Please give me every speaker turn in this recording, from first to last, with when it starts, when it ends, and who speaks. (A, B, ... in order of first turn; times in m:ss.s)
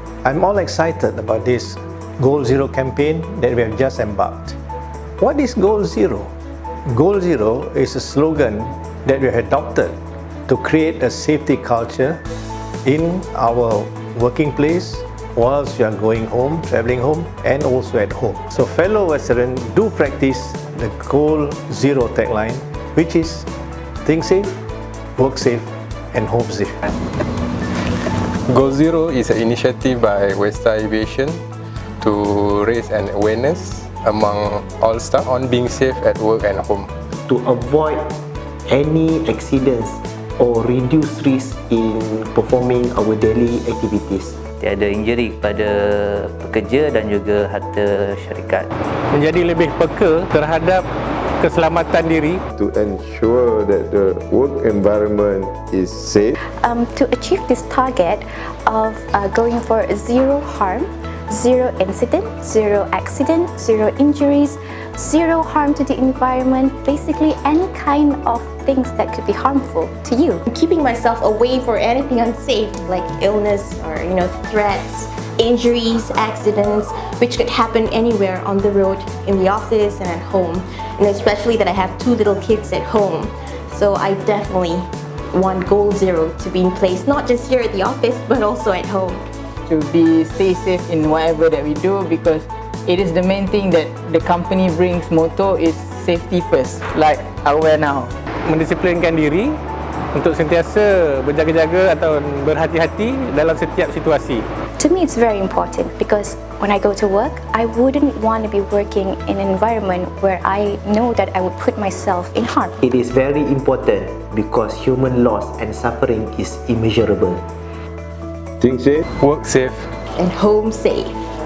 0:00.2-0:04.6 A
0:05.2-0:06.3 A
0:06.9-0:10.0 A
0:10.5-0:12.2 A
0:12.8-0:23.5 A
0:24.0-0:24.5 A
0:25.2-0:26.8 A
0:28.5-0:31.4 B
0:32.0-0:36.9 B
0:37.3-0:38.2 C
0:38.7-0:44.4 C
0:44.6-0:48.7 D
0:49.1-0:50.8 E
0:51.4-0:52.4 E
0:52.5-0:56.3 F
0:56.6-1:10.4 G
1:10.5-1:29.2 H
1:29.7-1:38.1 I
1:38.5-1:39.6 E
1:40.1-1:44.4 E
1:44.8-1:52.7 G
1:52.8-1:57.4 C
1:58.6-1:59.0 F
1:59.2-1:59.9 B
2:00.1-2:01.2 H